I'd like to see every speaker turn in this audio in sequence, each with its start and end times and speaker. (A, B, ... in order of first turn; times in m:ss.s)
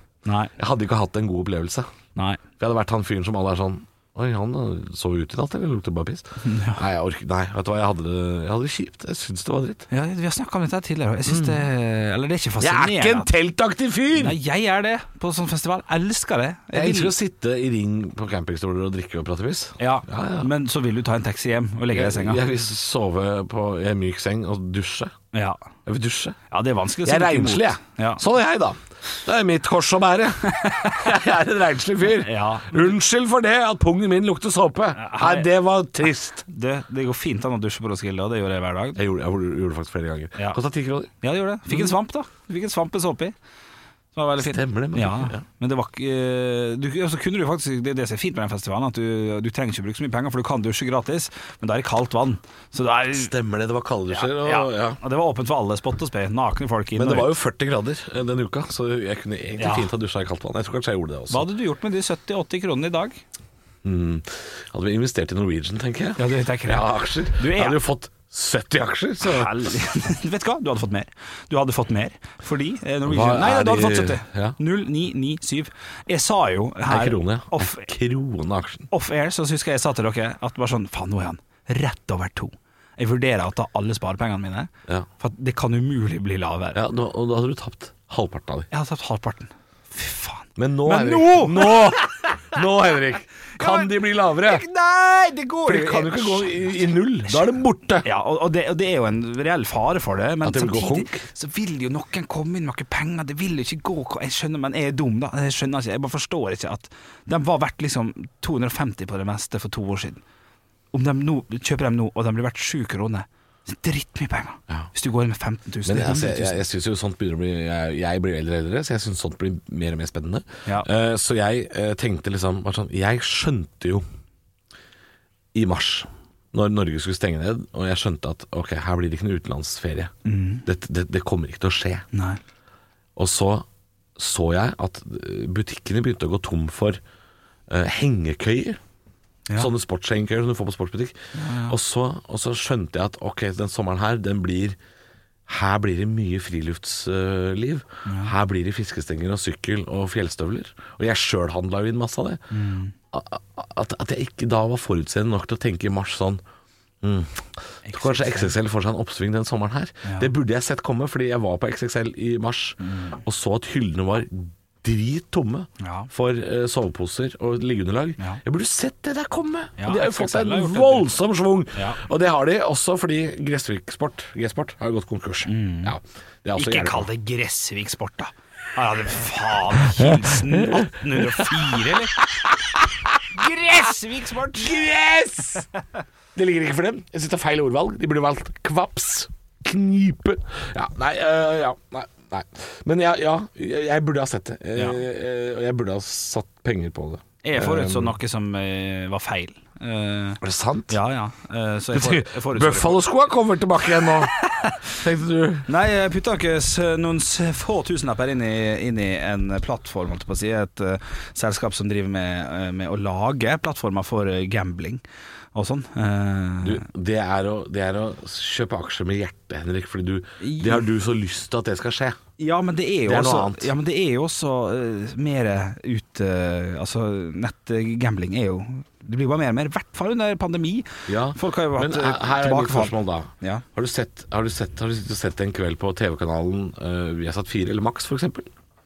0:00.2-0:00.5 A
0:00.6-0:01.9 B
0:02.2-0:02.4 A
0:02.6-0:09.9 B
0:06.4-0:06.8 A
0:09.9-0:13.3 A
0:11.3-0:11.6 B
0:12.6-0:14.4 B
0:14.2-0:17.1 A
0:16.7-0:20.5 B
0:19.8-0:22.4 A
0:21.9-0:25.1 B
0:25.3-0:25.6 A
0:25.9-0:26.4 B
0:26.5-0:28.2 A
0:27.0-0:36.4 B
0:30.5-0:31.1 A
0:32.1-0:32.9 A
0:35.0-0:35.5 A
0:36.5-0:39.0 A
0:39.0-0:41.1 B
0:41.2-0:43.4 A
0:41.7-0:42.0 B
0:44.2-0:53.3 A
0:44.4-0:45.4 B
0:53.1-0:55.0 B
0:54.1-0:57.3 A
0:57.0-1:01.4 B
0:59.6-0:59.9 A
1:01.3-1:03.2 A
1:03.8-1:09.7 B
1:06.2-1:07.8 A
1:09.2-1:17.9 A
1:13.1-1:14.6 B
1:16.9-1:18.9 B
1:18.9-1:26.8 A
1:26.7-1:28.7 B
1:28.7-1:31.9 A
1:30.6-1:34.7 B
1:33.6-1:36.7 A
1:35.7-1:38.1 B
1:38.0-1:50.2 A
1:40.4-1:41.3 B
1:50.9-1:56.6 A
1:55.9-2:04.0 B
2:05.5-2:10.1 B
2:10.2-2:10.6 A
2:10.6-2:12.1 B
2:12.1-2:12.4 A
2:13.2-2:13.7 B
2:14.2-2:17.0 B
2:17.7-2:18.8 B
2:19.6-2:24.8 B
2:21.4-2:21.8 A
2:25.5-2:32.4 B
2:28.1-2:28.3 A
2:32.5-2:32.9 A
2:33.1-2:36.4 B
2:37.0-2:57.1 B
2:37.9-2:38.5 A
2:40.0-2:40.3 A
2:42.8-2:43.2 A
2:45.8-2:46.1 A
2:49.8-2:51.1 A
2:51.8-2:52.0 A
2:55.5-2:55.9 A
2:56.6-3:02.2 A
2:59.7-3:03.8 B
3:03.3-3:04.9 A
3:04.5-3:05.7 B
3:06.4-3:18.1 B
3:14.8-3:15.0 A
3:17.4-3:23.0 A
3:20.4-3:21.0 B
3:21.9-3:24.3 B
3:24.0-3:24.9 A
3:24.9-3:25.7 B
3:25.7-3:35.0 A
3:35.6-3:36.9 A
3:36.6-3:42.2 B
3:40.4-3:40.8 A
3:42.4-3:53.6 A
3:43.1-3:43.7 B
3:51.1-3:58.5 B